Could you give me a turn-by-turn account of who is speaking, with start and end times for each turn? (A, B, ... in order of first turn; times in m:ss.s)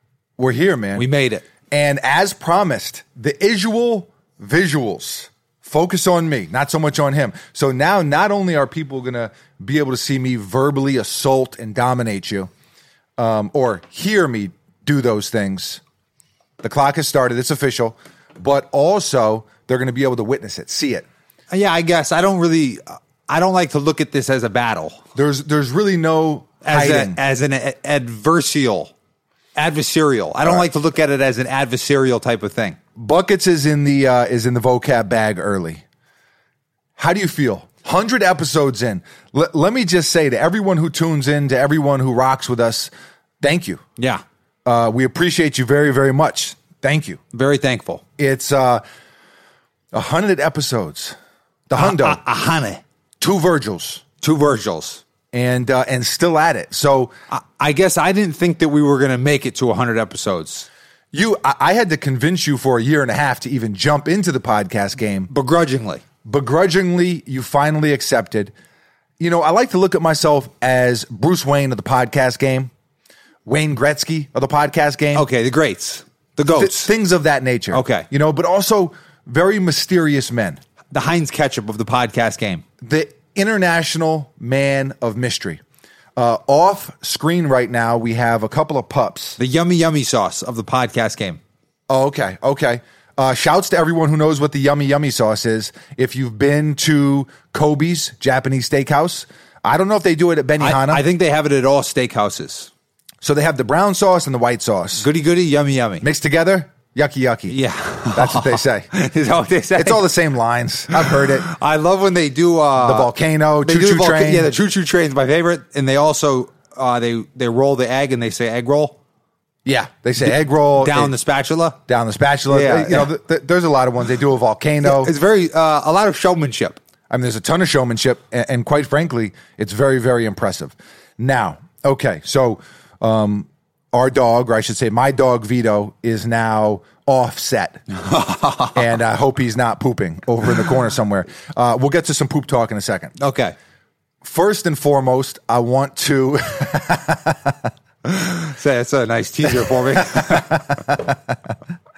0:00.4-0:01.1 A
0:01.0-0:01.4 B
0:01.7-0:12.5 A
0:13.2-0:15.8 A
0:16.6-0:21.1 A
0:21.5-0:25.0 B
0:25.2-0:27.2 A
0:26.6-0:28.9 B
0:29.6-0:32.8 B
0:33.0-0:35.8 A
0:37.0-0:43.8 A
0:44.0-0:44.2 B
0:44.7-0:47.2 A
0:47.3-0:48.0 B
0:48.2-0:48.8 A
0:49.9-0:51.2 A
0:51.7-0:52.2 A
0:51.8-0:52.8 B
0:53.2-0:54.0 A
0:54.2-0:55.0 B
0:55.3-0:57.1 A
0:57.3-1:00.7 B
1:01.1-1:05.3 A
1:05.3-1:06.0 B
1:06.2-1:08.5 A
1:09.2-1:12.7 A
1:13.5-1:15.3 A
1:15.1-1:16.9 B
1:16.5-1:20.6 A
1:17.7-1:18.1 B
1:20.9-1:22.6 B
1:22.8-1:25.6 A
1:26.2-1:29.4 A
1:29.4-1:31.4 B
1:31.9-1:41.0 A
1:40.6-1:42.7 B
1:43.2-1:45.1 A
1:45.0-1:46.0 B
1:46.0-1:47.6 A
1:47.5-1:50.1 B
1:48.1-1:48.9 A
1:49.8-1:51.5 A
1:50.9-1:59.0 B
1:52.8-1:54.5 A
1:59.7-2:01.2 A
2:00.2-2:01.8 B
2:01.9-2:05.1 A
2:02.5-2:03.1 B
2:04.8-2:06.8 B
2:07.1-2:17.8 A
2:17.9-2:18.9 B
2:18.7-2:23.2 A
2:23.2-2:23.5 B
2:24.2-2:27.6 A
2:28.0-2:30.8 B
2:30.5-2:31.1 A